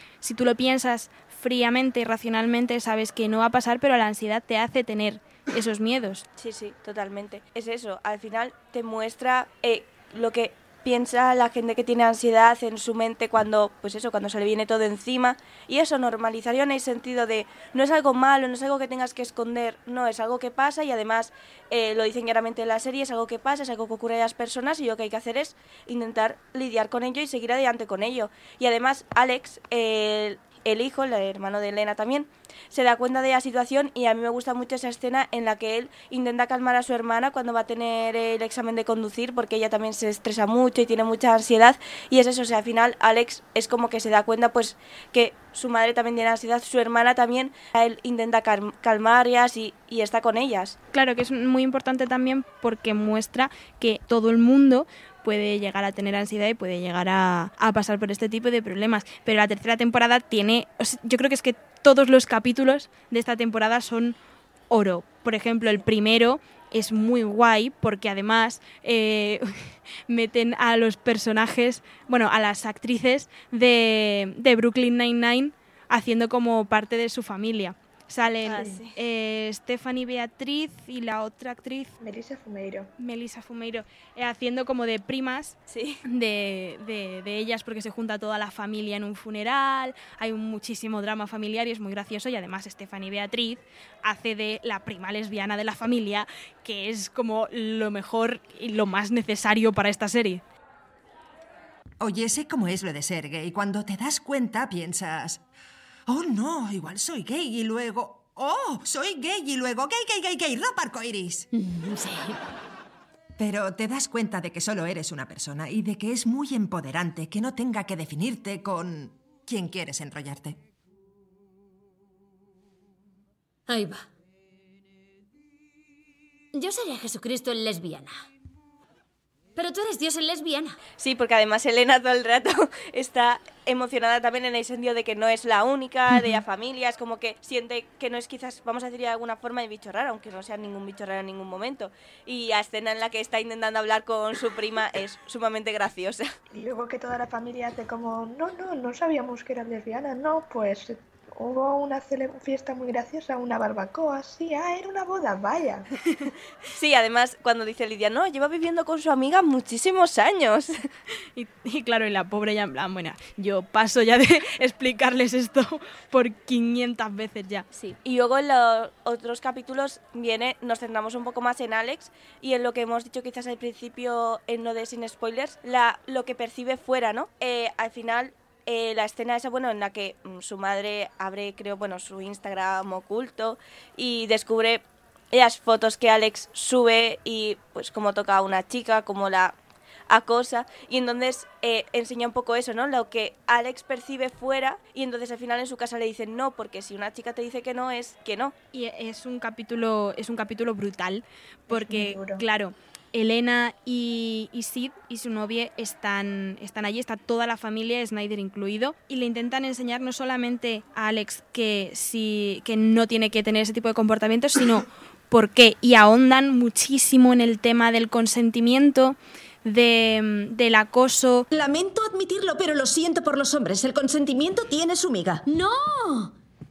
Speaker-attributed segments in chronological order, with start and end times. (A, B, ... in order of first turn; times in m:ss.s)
0:00.2-0:06.2 A
0:06.4-0:50.8 B
0:50.9-1:04.2 A
1:04.7-1:21.9 A
1:18.4-1:19.0 B
1:22.0-1:22.9 C
1:23.0-1:40.4 A
1:25.7-1:26.0 B
1:42.0-1:45.4 D
1:46.1-1:51.5 D
1:51.5-1:52.4 E
1:53.4-2:00.6 D
2:03.7-2:04.1 E
2:06.5-2:08.2 E
2:09.6-2:10.8 E
2:11.0-2:26.3 B
2:26.5-2:35.9 C
2:36.7-2:40.7 B
2:41.4-2:47.7 A
2:47.8-3:09.6 B
3:10.1-3:18.5 B
3:18.7-3:41.5 A
3:21.7-3:22.4 C
3:41.5-3:45.4 F
3:45.5-3:46.3 E